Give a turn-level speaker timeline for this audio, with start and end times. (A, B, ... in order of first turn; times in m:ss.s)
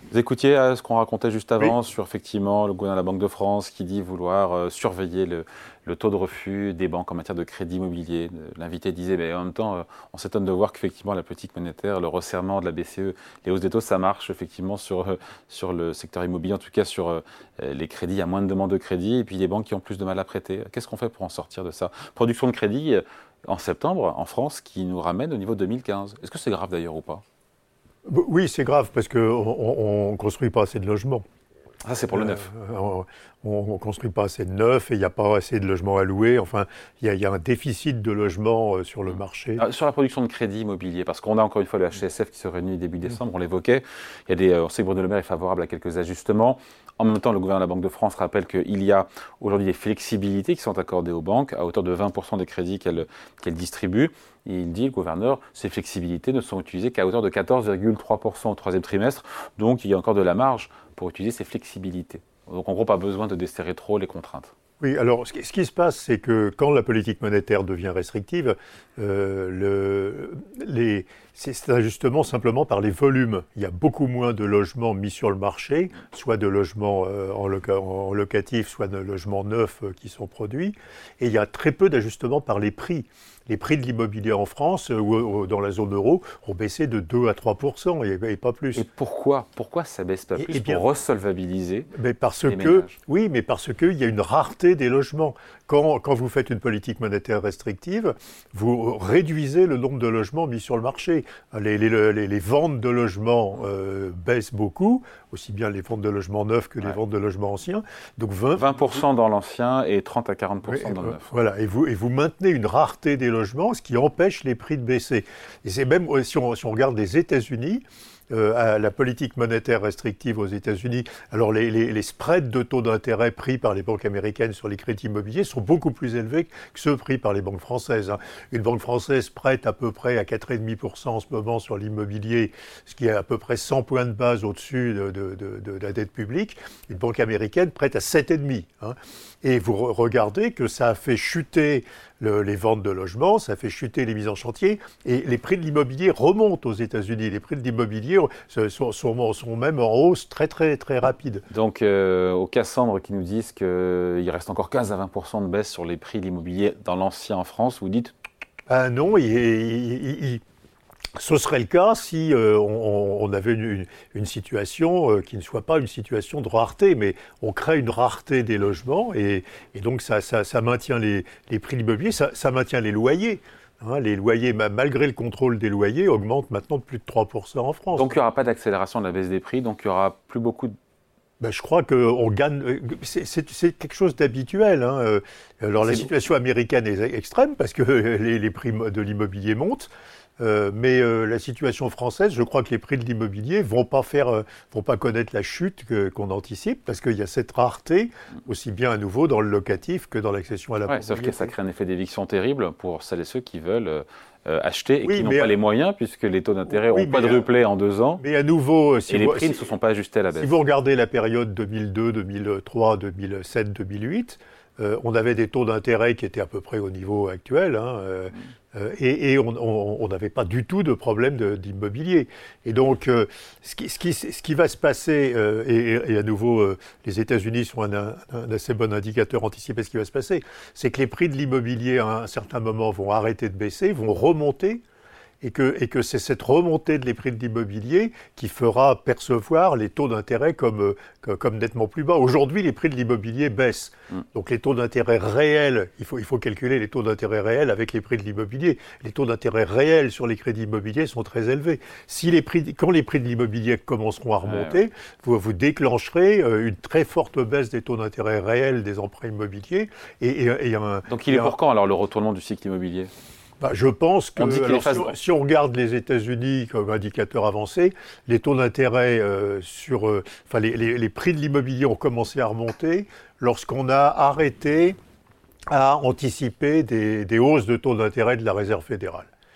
0:00.1-0:27.2 A
0:28.0-0:31.2 B
0:31.8-0:32.5 A
0:32.1-0:39.6 B
0:39.1-1:04.5 A
1:04.8-1:28.8 B
1:28.8-1:31.9 A
1:30.4-1:30.9 B
1:31.9-1:48.9 B
1:32.5-1:33.0 A
1:48.6-1:51.2 A
1:50.6-2:31.4 B
2:31.5-2:38.1 A
2:38.7-2:40.4 B
2:41.2-2:58.1 B
2:58.0-3:00.8 A
3:01.4-3:21.5 B
3:05.8-3:06.1 A
3:20.9-3:28.2 A
3:25.0-3:25.5 B
3:26.7-3:27.5 B
3:28.2-3:29.7 B
3:29.1-3:30.6 A
3:30.3-3:54.8 B
3:55.4-4:21.6 B
4:14.4-4:14.8 A
4:21.1-4:23.1 A
4:23.6-4:35.0 B
4:24.4-4:25.2 A
4:35.7-4:39.3 B